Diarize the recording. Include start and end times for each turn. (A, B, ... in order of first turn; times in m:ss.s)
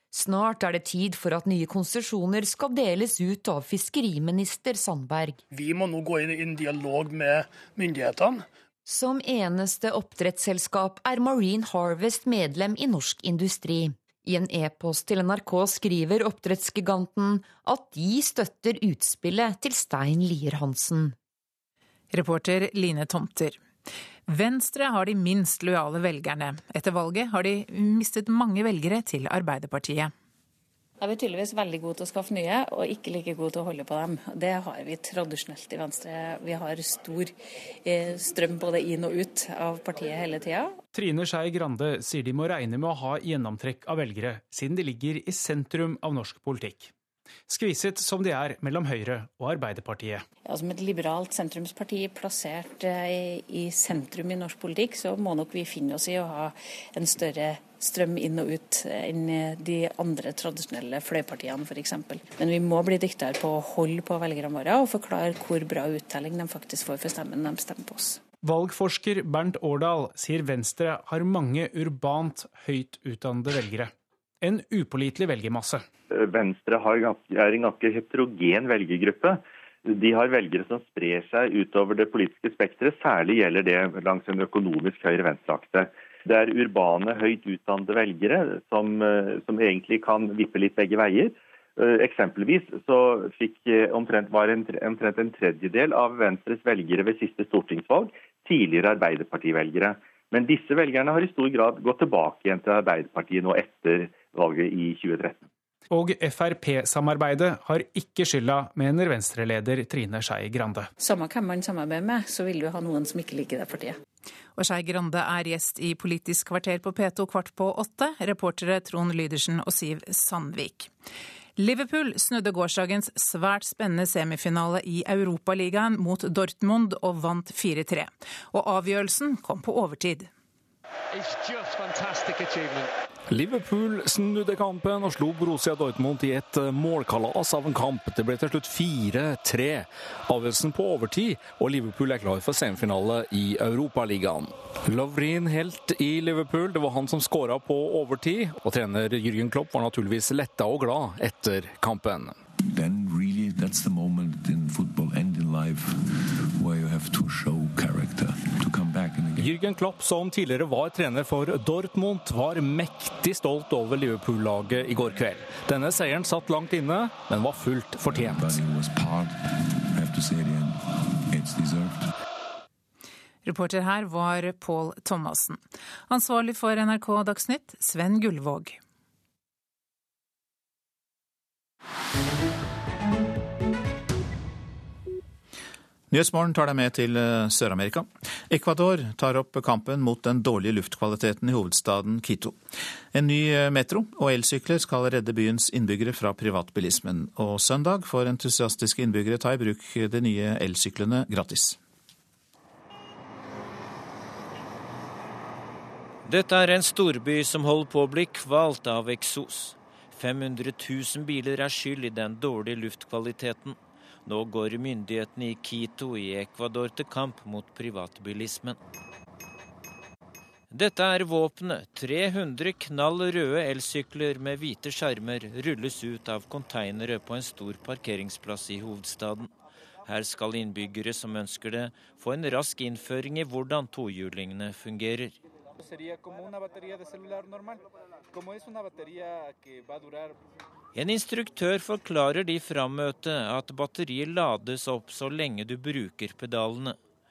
0:00.1-0:05.4 A
0:05.5-0:08.4 B
0:08.8-0:21.2 A
0:22.1-0:23.6 C
0:24.3-0:30.1 C
0:31.0-0:40.8 D
0:40.9-0:46.9 E
0:47.5-0:50.2 E
0:50.4-1:08.2 D
1:08.4-1:15.8 E
1:16.1-1:45.5 F
1:45.9-1:50.9 E
1:51.0-1:54.0 D
1:54.6-2:00.9 C
2:01.6-2:10.3 C
2:13.3-2:32.3 G
2:32.7-2:39.5 H
2:39.4-2:48.6 G
2:48.1-2:52.1 H
2:53.4-2:58.8 C
3:06.1-3:12.6 I
3:13.1-3:21.8 I
3:26.2-3:38.8 J
3:40.7-3:49.5 J
3:50.0-3:55.4 J
4:00.9-4:07.0 J